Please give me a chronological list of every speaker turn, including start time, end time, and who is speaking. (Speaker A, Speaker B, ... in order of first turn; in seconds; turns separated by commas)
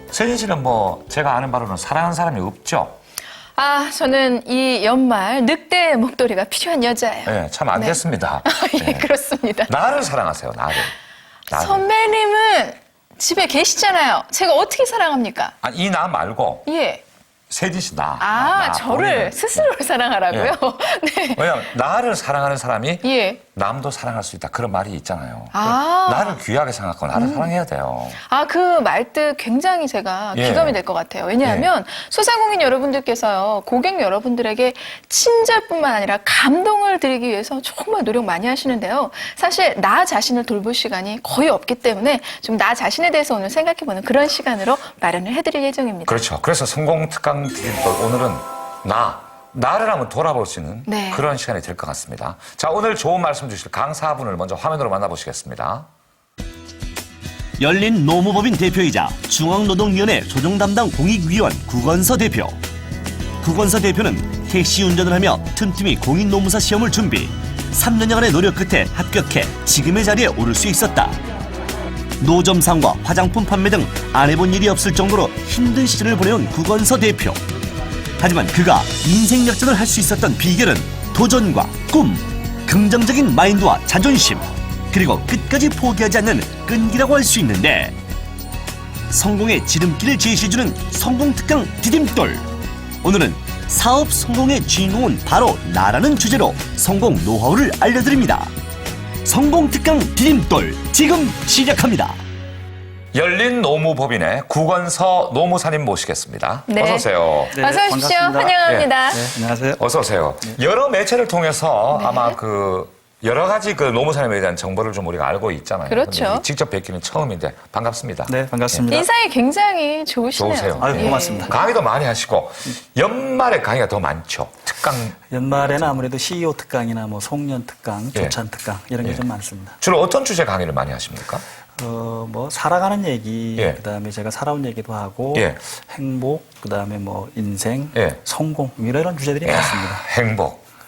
Speaker A: 0.1-3.0, Speaker B: 3.6-9.7, Speaker A: 7.3-9.1, Speaker A: 9.7-10.9, Speaker B: 11.5-15.5, Speaker A: 11.5-11.8, Speaker A: 15.6-16.7, Speaker B: 16.6-17.0, Speaker A: 17.5-19.7, Speaker B: 18.2-21.7, Speaker A: 20.3-20.6, Speaker A: 21.4-28.2, Speaker B: 23.0-23.4, Speaker B: 25.5-26.4, Speaker B: 27.1-27.5, Speaker B: 28.2-46.2, Speaker A: 30.3-30.8, Speaker A: 31.4-31.7, Speaker A: 46.1-55.9, Speaker B: 50.9-51.3, Speaker C: 57.6-62.6, Speaker C: 63.4-71.2, Speaker C: 72.2-77.4, Speaker C: 78.2-88.0, Speaker C: 89.1-92.5, Speaker C: 93.0-98.5, Speaker C: 99.2-102.2, Speaker A: 103.1-107.5, Speaker B: 106.7-109.2, Speaker D: 107.5-109.8, Speaker A: 108.6-108.9, Speaker A: 109.8-118.9, Speaker B: 111.9-112.4, Speaker B: 115.9-116.5, Speaker D: 118.3-119.1, Speaker B: 118.9-121.6, Speaker A: 120.4-125.9, Speaker D: 120.8-121.5, Speaker D: 125.3-129.8, Speaker A: 129.8-131.4, Speaker D: 131.8-140.0, Speaker A: 135.3-135.6, Speaker A: 137.9-138.2, Speaker A: 139.4-140.6